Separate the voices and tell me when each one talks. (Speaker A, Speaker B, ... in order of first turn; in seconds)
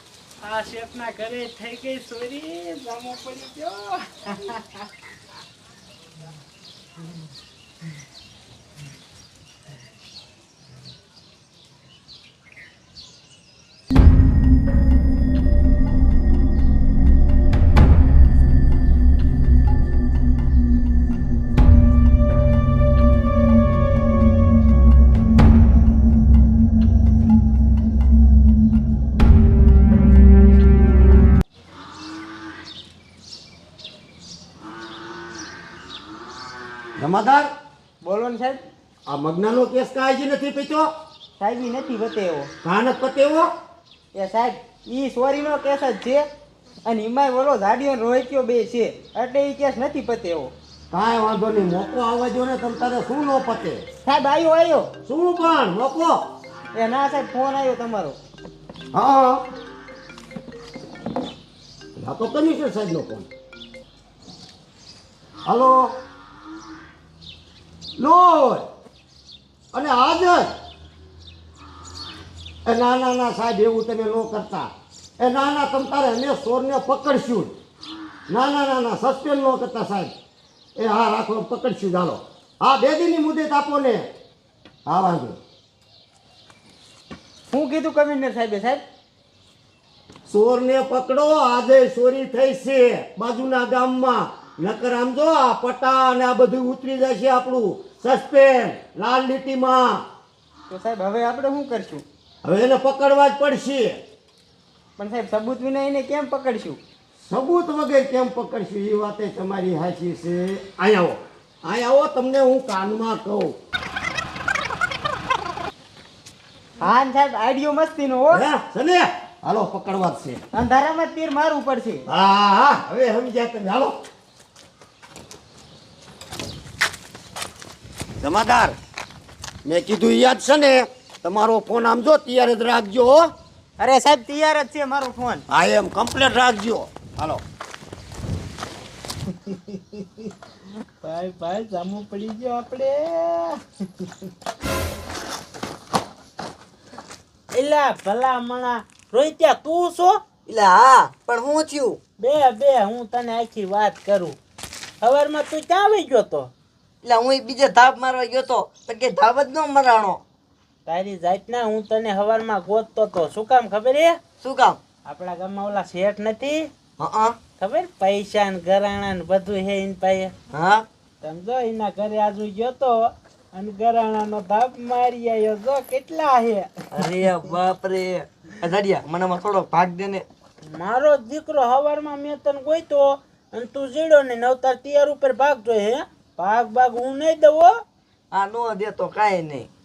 Speaker A: 0.4-4.9, 139.3-140.3, 141.0-144.3, 147.5-150.2, 152.2-154.4, 155.0-156.5, 160.9-164.2, 165.1-166.7, 167.6-170.3, 171.2-176.8, 180.6-187.7
Speaker B: 37.0-37.5, 39.1-40.9, 42.6-43.5, 50.9-53.9, 55.0-56.2, 58.9-59.5, 62.0-63.3, 65.5-66.0, 68.0-68.7, 69.7-70.5, 72.7-77.5, 78.3-80.1, 80.8-84.0, 84.9-85.4, 90.3-100.0, 102.4-104.0, 107.3-113.5, 118.3-120.4, 122.1-124.0, 128.2-128.8, 129.7-133.3, 135.5-137.4
Speaker C: 38.0-38.6, 41.4-42.5, 44.1-46.3, 46.9-50.5, 54.0-54.9, 56.7-58.2, 87.5-88.8, 100.7-102.0, 105.0-106.8, 116.8-118.4, 120.5-122.1, 133.8-135.4
Speaker D: 150.5-152.0, 157.0-160.2, 164.4-164.8, 167.0-167.4, 170.5-170.9, 176.9-180.3, 188.3-189.7